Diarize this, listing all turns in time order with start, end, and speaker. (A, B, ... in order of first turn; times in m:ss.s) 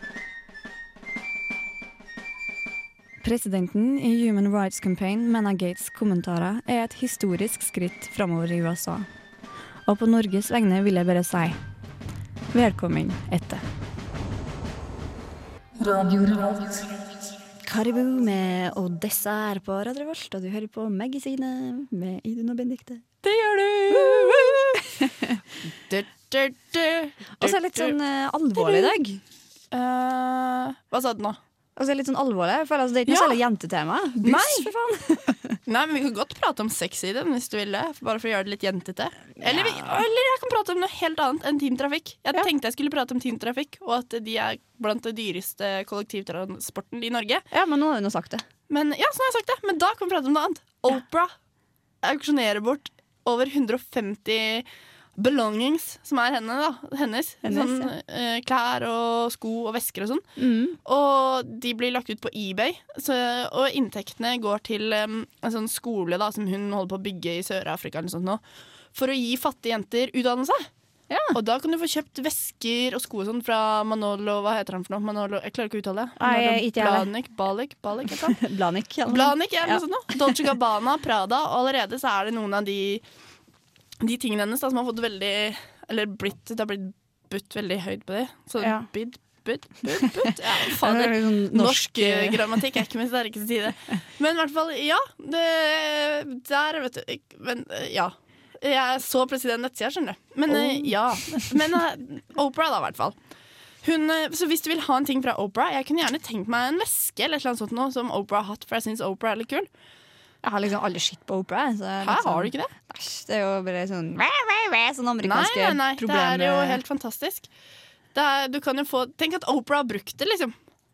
0:03.2-0:09.1 A
0:09.9-0:11.6 A
0:12.5-0:13.6 A
0:17.6-0:23.0 A
0:23.2-0:24.8 B
0:23.9-0:25.4 A
0:25.8-0:27.9 B
0:27.4-0:29.2 A
0:28.6-0:28.9 B
0:29.7-0:31.4 B
0:31.8-0:35.6 A
0:33.1-0:33.4 B
0:34.2-0:34.7 B
0:35.6-0:47.4 B
0:39.4-0:39.9 A
0:47.5-0:48.4 A
0:48.7-0:51.3 B
0:52.0-1:00.3 B
0:57.4-0:57.9 A
1:00.4-1:00.8 A
1:00.8-1:08.4 B
1:08.9-1:10.7 B
1:11.1-1:11.4 A
1:11.3-1:18.4 B
1:16.2-1:17.1 A
1:18.3-1:20.4 A
1:19.1-1:23.0 B
1:24.0-1:43.2 B
1:28.6-1:28.9 A
1:29.9-1:30.2 A
1:30.8-1:32.6 A
1:40.5-1:41.5 A
1:43.8-1:49.7 B
1:50.4-1:56.8 A
1:52.0-1:52.7 B
1:55.2-1:57.5 B
1:58.1-2:00.5 B